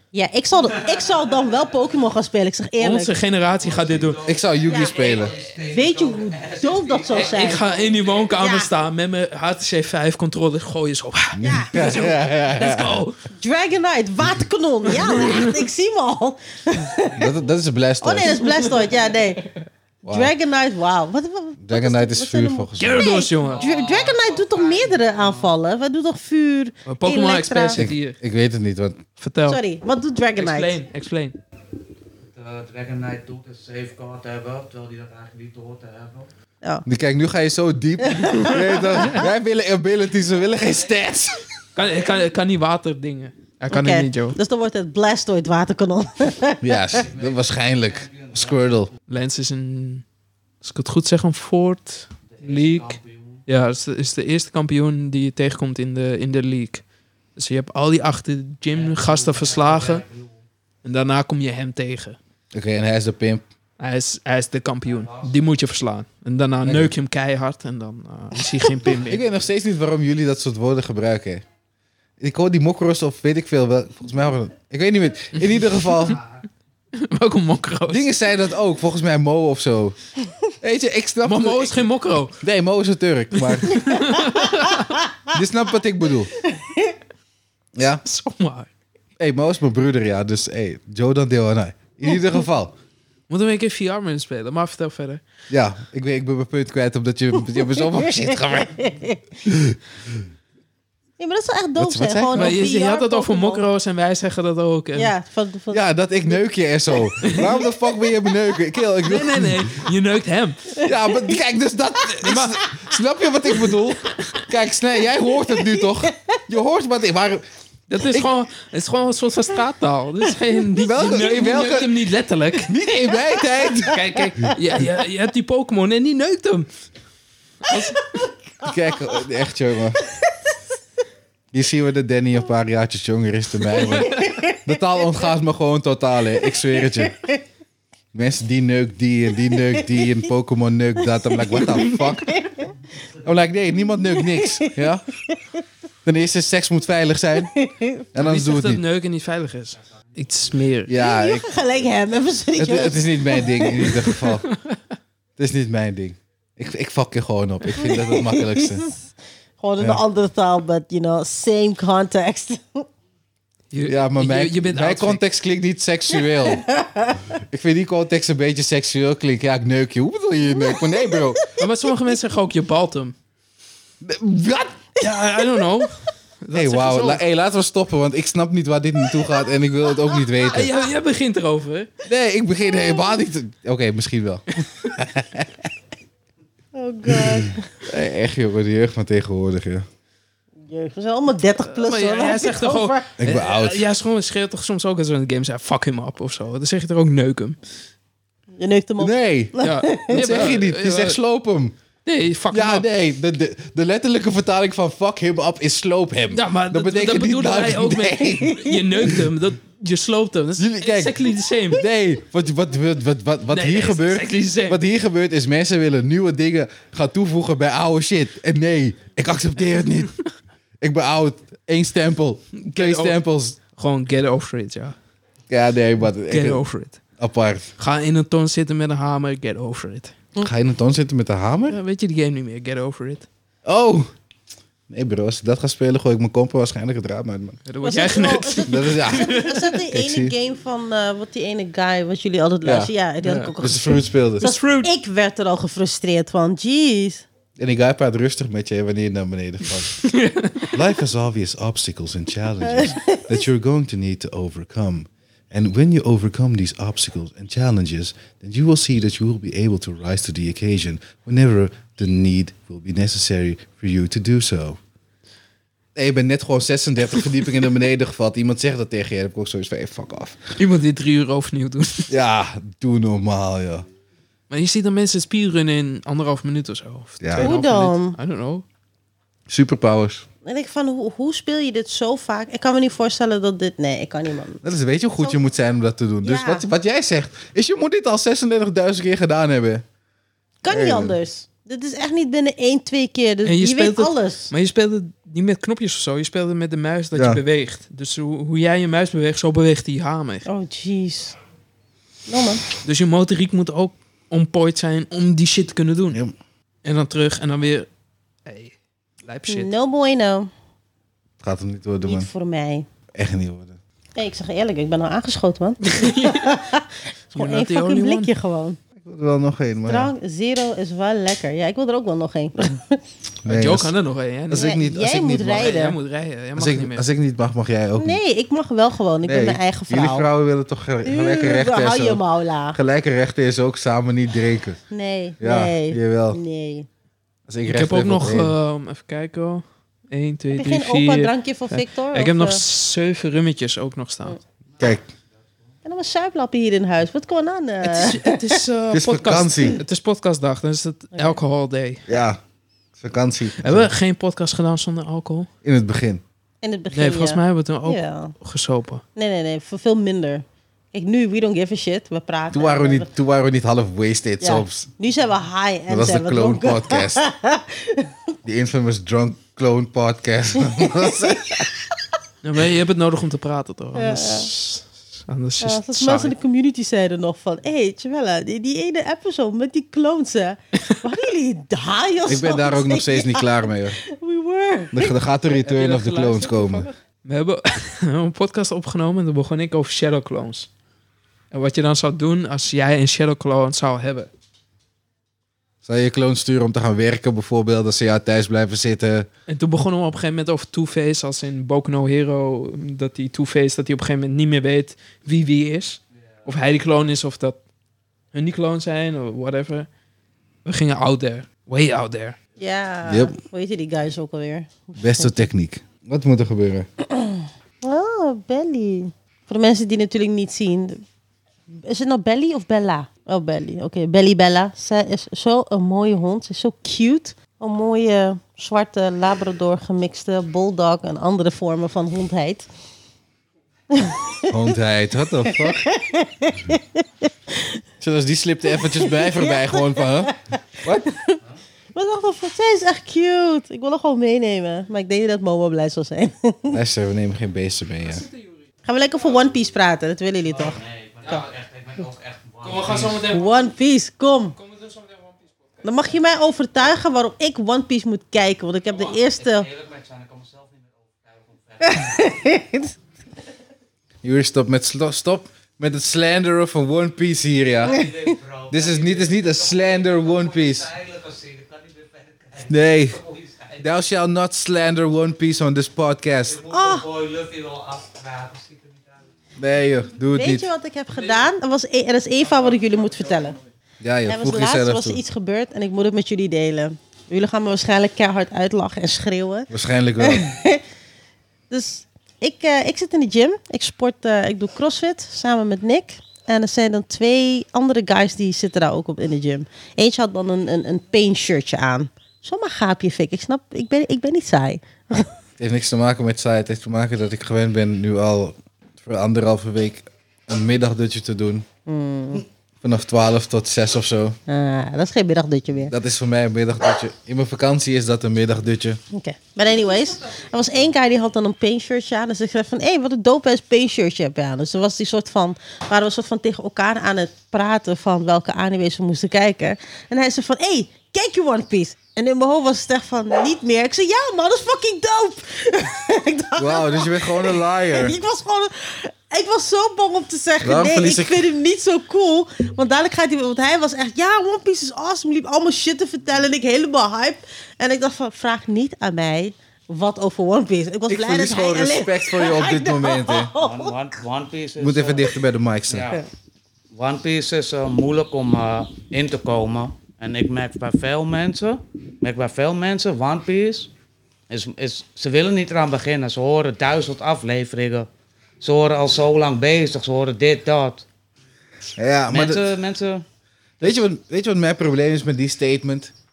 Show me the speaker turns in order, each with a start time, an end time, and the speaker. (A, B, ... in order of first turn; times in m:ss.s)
0:00.1-0:03.2 A
0:02.8-0:04.3 B
0:03.7-0:07.9 C
0:04.2-0:05.4 D
0:04.6-0:07.6 A
0:07.2-0:13.2 B
0:08.4-0:08.7 A
0:11.3-0:13.0 D
0:11.4-0:11.9 A
0:13.3-0:17.2 A
0:14.9-0:15.6 B
0:17.2-0:18.5 D
0:18.0-0:19.4 A
0:18.4-0:18.9 B
0:20.0-0:20.3 D
0:20.0-0:27.8 A
0:21.6-0:23.1 D
0:22.8-0:23.7 B
0:23.3-0:25.5 C
0:26.8-0:28.2 B
0:27.7-0:29.0 D
0:29.2-0:29.6 B
0:29.4-0:30.8 A
0:30.3-0:31.4 B
0:32.3-0:36.3 C
0:36.8-0:41.5 D
0:38.0-0:39.2 A
0:41.7-0:44.4 B
0:43.7-0:46.9 A
0:46.6-0:48.9 D
0:49.1-0:50.0 B
0:50.6-0:56.8 B
0:52.3-0:53.4 C
0:57.4-1:00.0 B
0:58.7-1:00.3 C
1:00.8-1:02.2 B
1:02.5-1:03.4 D
1:03.8-1:09.2 B
1:05.0-1:05.3 C
1:06.6-1:06.9 D
1:08.9-1:11.4 D
1:12.2-1:16.2 D
1:15.4-1:16.2 B
1:16.9-1:18.1 B
1:17.9-1:20.0 D
1:20.6-1:21.8 D
1:21.2-1:22.4 B
1:22.4-1:24.0 D
1:23.3-1:25.0 B
1:24.2-1:25.0 A
1:25.3-1:26.3 D
1:26.4-1:27.0 A
1:27.8-1:28.0 D
1:28.0-1:28.7 B
1:29.2-1:32.7 D
1:33.3-1:35.2 B
1:35.5-1:38.8 D
1:37.7-1:39.2 A
1:39.4-1:40.2 D
1:41.2-1:43.6 A
1:41.8-1:42.6 D
1:42.3-1:45.1 B
1:44.9-1:45.8 A
1:45.7-1:49.8 D
1:47.2-1:48.1 A
1:47.2-1:47.5 B
1:49.0-1:50.7 B
1:50.8-1:51.4 A
1:50.8-1:57.4 D
1:52.2-1:52.6 B
1:55.6-1:56.1 A
1:57.9-2:02.7 B
1:58.0-1:58.3 D
2:00.7-2:01.9 D
2:02.6-2:04.5 D
2:03.8-2:06.7 B
2:07.6-2:08.0 B
2:07.7-2:09.2 A
2:08.6-2:10.0 D
2:11.5-2:17.1 D
2:13.8-2:14.6 A
2:17.1-2:17.4 A
2:18.1-2:22.4 D
2:21.3-2:22.7 A
2:23.2-2:25.0 D
2:24.0-2:24.7 A
2:26.0-2:27.5 D
2:27.5-2:28.0 A
2:28.1-2:28.8 D
2:28.2-2:30.9 B
2:30.9-2:31.5 D
2:31.0-2:33.9 A
2:32.6-2:34.5 D
2:34.1-2:34.8 B
2:35.4-2:38.8 D
2:37.8-2:42.9 A
2:43.7-2:45.2 B
2:43.8-2:46.6 D
2:46.4-2:47.3 A
2:47.3-2:51.4 D
2:50.5-2:51.6 A
2:51.6-2:53.1 B
2:54.0-2:54.9 D
2:55.0-2:57.2 B
2:56.5-3:00.7 D
3:00.4-3:01.9 B
3:02.0-3:05.7 D
3:06.7-3:07.7 A
3:07.1-3:09.8 D
3:10.6-3:13.1 A
3:11.7-3:17.6 B
3:13.2-3:13.9 D
3:18.6-3:20.5 A
3:19.0-3:19.5 D
3:19.6-3:21.2 B
3:20.1-3:21.8 D
3:22.0-3:22.9 B
3:22.5-3:29.2 D
3:26.3-3:31.8 B
3:28.3-3:29.2 A
3:30.6-3:40.1 D
3:33.5-3:34.8 B
3:40.8-3:43.6 D
3:42.6-3:43.2 B
3:43.7-3:45.0 B
3:45.5-3:46.6 D
3:46.3-3:47.0 B
3:47.2-3:47.7 D
3:47.8-3:50.2 B
3:50.4-3:51.8 D
3:51.7-3:53.3 B
3:53.6-3:54.1 D
3:54.9-3:57.6 D
3:57.7-3:59.7 B
3:57.8-4:07.2 A
3:58.7-4:00.3 D
4:02.6-4:02.9 D
4:03.2-4:03.5 B
4:03.6-4:04.5 D
4:04.4-4:04.9 B
4:07.6-4:10.1 D
4:10.0-4:10.7 B
4:10.7-4:24.8 D
4:12.6-4:13.4 A
4:25.9-4:30.5 D
4:30.6-4:32.1 B
4:32.1-4:33.8 D
4:34.5-4:38.6 B
4:37.2-4:37.5 D
4:37.4-4:38.2 A
4:39.5-4:40.2 D
4:40.4-4:44.6 A
4:44.6-4:49.8 D
4:46.2-4:46.7 A
4:50.6-4:54.5 A
4:50.7-4:51.2 D
4:53.4-5:00.5 B
4:57.1-4:57.4 D
5:00.4-5:01.4 A
5:02.3-5:02.6 A
5:02.8-5:06.2 B
5:06.8-5:07.9 B
5:08.4-5:08.7 B
5:09.2-5:09.7 B
5:09.5-5:10.5 A
5:11.4-5:12.3 D
5:12.0-5:12.9 A
5:13.1-5:13.8 D
5:14.2-5:18.8 A
5:15.8-5:16.6 B
5:17.3-5:18.3 B
5:19.0-5:20.1 D
5:19.8-5:23.0 A
5:23.4-5:23.9 D
5:23.4-5:27.0 B
5:24.5-5:25.7 D
5:24.5-5:26.0 A
5:26.6-5:28.2 D
5:28.0-5:30.3 A
5:29.2-5:32.2 D
5:31.0-5:32.8 A
5:32.7-5:34.8 D
5:34.9-5:36.9 A
5:35.4-5:36.4 D
5:37.5-5:38.5 D
5:37.6-5:44.4 B
5:40.5-5:42.6 A
5:44.8-5:45.0 D
5:45.8-5:48.6 A
5:47.8-5:52.1 B
5:48.9-5:49.8 D
5:52.1-5:52.4 D
5:53.0-5:53.9 D
5:53.6-5:55.5 B
5:55.6-5:56.2 D
5:56.6-5:58.3 A
5:56.9-5:59.0 B
5:59.2-6:03.1 A
6:02.5-6:04.9 D
6:04.4-6:08.1 A
6:05.9-6:07.2 D
6:08.4-6:11.7 D
6:10.7-6:11.7 A
6:12.4-6:16.3 B
6:13.9-6:14.5 A
6:15.6-6:25.1 A
6:22.3-6:24.0 D
6:24.9-6:26.9 D
6:25.6-6:30.7 B
6:31.5-6:34.3 B
6:35.8-6:39.3 D
6:39.5-6:47.6 B
6:48.3-6:49.9 B
6:50.6-6:52.4 B
6:52.6-6:55.3 A
6:53.0-6:53.3 D
6:55.0-6:56.8 D
6:57.1-7:01.0 A
7:01.7-7:12.7 A
7:13.9-7:14.7 A
7:14.5-7:15.8 D
7:15.4-7:17.8 A
7:18.0-7:21.1 D
7:18.7-7:21.4 A
7:21.9-7:26.8 A
7:26.7-7:28.3 D
7:28.8-7:30.8 A
7:30.4-7:33.3 C
7:32.6-7:33.5 B
7:33.3-7:34.6 A
7:34.6-7:35.3 B
7:35.8-7:39.7 A
7:38.9-7:42.5 C
7:41.8-7:42.9 A
7:44.2-7:48.0 D
7:47.8-7:53.8 C
7:48.7-7:50.9 D
7:52.7-7:53.2 D
7:53.8-7:56.6 D
7:56.5-7:59.2 C
7:56.7-7:57.0 A
7:59.6-8:00.7 D
8:00.3-8:03.6 A
8:04.0-8:05.2 D
8:04.3-8:10.8 A
8:09.7-8:10.4 D
8:11.7-8:25.3 A
8:25.6-8:31.6 D
8:31.8-8:32.4 A
8:32.8-8:34.4 D
8:34.5-8:35.9 A
8:35.9-8:39.0 D
8:39.1-9:14.0 A
8:56.6-8:58.2 D
9:00.6-9:01.5 D
9:11.1-9:13.5 D
9:13.6-9:15.3 C
9:14.8-9:16.1 D
9:15.9-9:16.2 C
9:16.9-9:23.9 C
9:24.5-9:28.1 C
9:28.6-9:31.1 C
9:32.0-9:32.7 D
9:32.3-9:33.2 C
9:33.8-9:36.1 D